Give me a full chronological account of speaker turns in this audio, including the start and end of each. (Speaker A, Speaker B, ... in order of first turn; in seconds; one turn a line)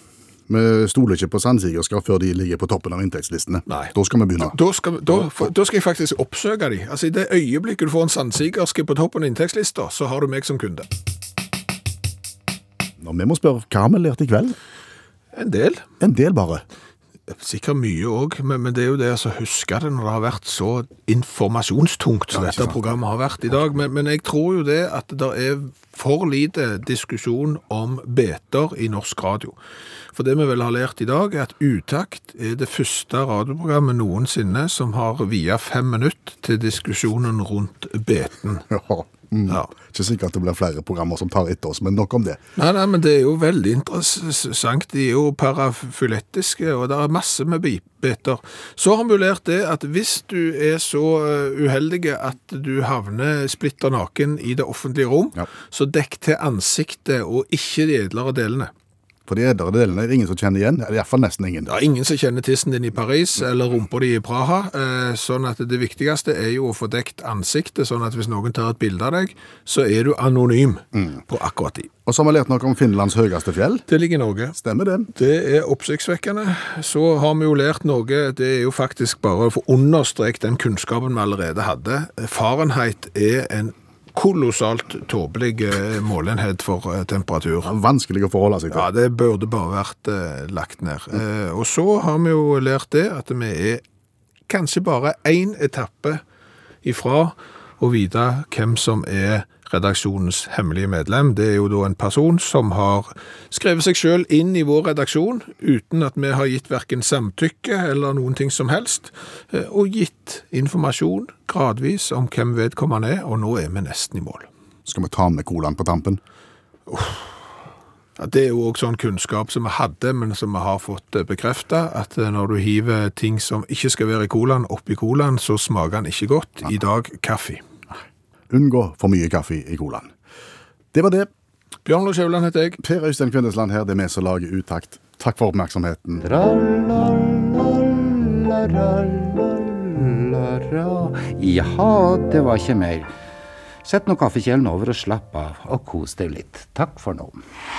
Speaker A: 0.5-4.5
Speaker B: 3.7-10.9
Speaker A: 5.1-5.5
Speaker A: 13.0-14.6
Speaker B: 15.3-15.8
Speaker A: 16.0-16.6
Speaker B: 17.3-29.5
Speaker A: 22.3-22.8
Speaker B: 30.1-38.6
Speaker A: 38.7-42.4
Speaker B: 42.6-58.7
Speaker A: 59.3-61.7
Speaker B: 61.7-71.9
Speaker A: 71.0-71.2
Speaker A: 72.0-73.8
Speaker B: 73.9-74.6
Speaker A: 74.5-75.1
Speaker B: 75.1-87.7
Speaker A: 87.6-88.9
Speaker B: 88.7-93.8
Speaker B: 94.5-96.2
Speaker B: 96.8-114.5
Speaker A: 114.8-116.2
Speaker B: 116.9-117.3
Speaker B: 118.2-127.6
Speaker A: 128.5-130.1
Speaker A: 130.9-131.3
Speaker B: 131.8-132.8
Speaker A: 132.8-136.2
Speaker C: 136.2-143.1
Speaker C: 143.8-147.4